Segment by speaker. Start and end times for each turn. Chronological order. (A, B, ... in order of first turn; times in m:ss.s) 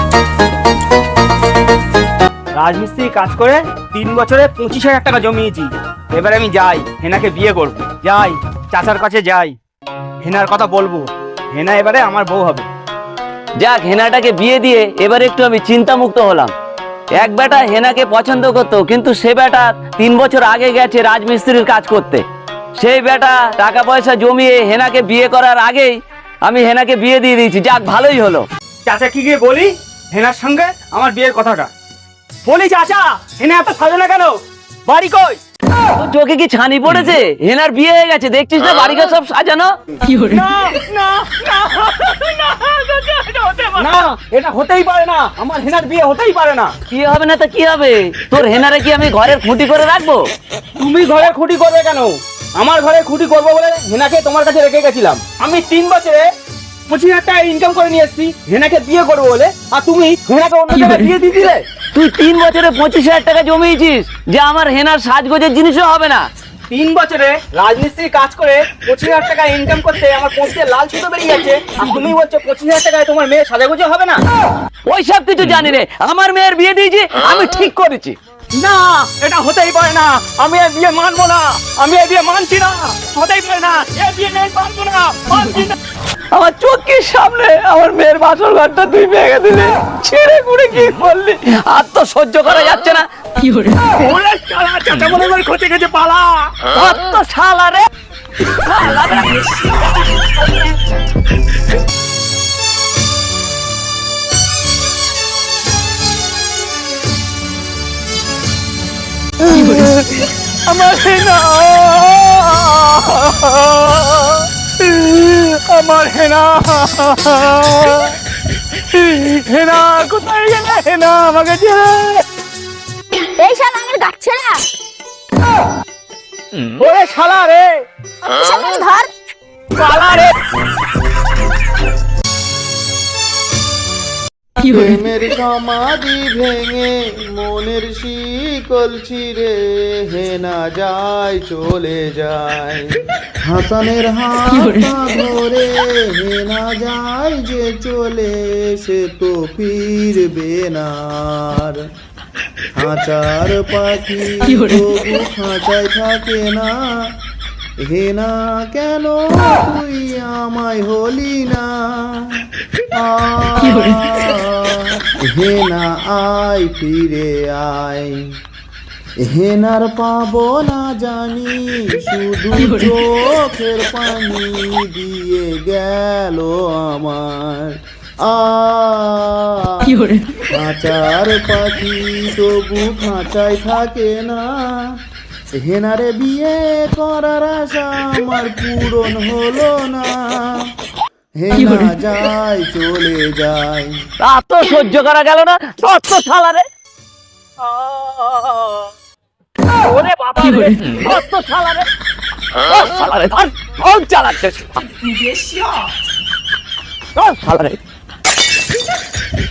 0:02.6-0:09.6 A
0:10.2-0:12.7 A
0:13.6-0:16.5 B
0:17.1-0:22.2 B
0:22.8-0:28.5 B
0:28.8-0:31.7 A
0:32.4-0:35.4 A
0:36.0-0:39.7 B
0:40.1-0:42.0 A
0:41.7-0:43.8 B
0:43.8-0:46.7 A
0:46.9-0:50.3 B
0:50.8-0:56.3 A
0:56.9-1:01.6 A
1:01.9-1:06.3 B
1:06.7-1:14.2 A
1:14.9-1:18.2 B
1:18.5-1:25.8 A
1:26.3-1:33.0 B
1:33.7-1:36.5 A
1:36.7-1:37.9 B
1:38.4-1:40.7 B
1:49.5-1:58.2 A
1:58.7-2:02.2 A
2:03.4-2:04.6 C
2:06.6-2:07.8 A
2:08.2-2:09.1 C
2:09.8-2:10.4 A
2:14.6-2:31.9 D
2:32.8-2:37.2 D
2:37.8-2:48.4 D
2:49.2-3:05.0 D
3:05.5-3:10.7 D
3:11.4-3:14.1 D
3:14.2-3:16.6 B
3:17.6-3:18.9 B
3:19.7-3:21.9 B
3:20.7-3:21.0 A
3:22.6-3:25.2 B
3:27.2-3:27.8 B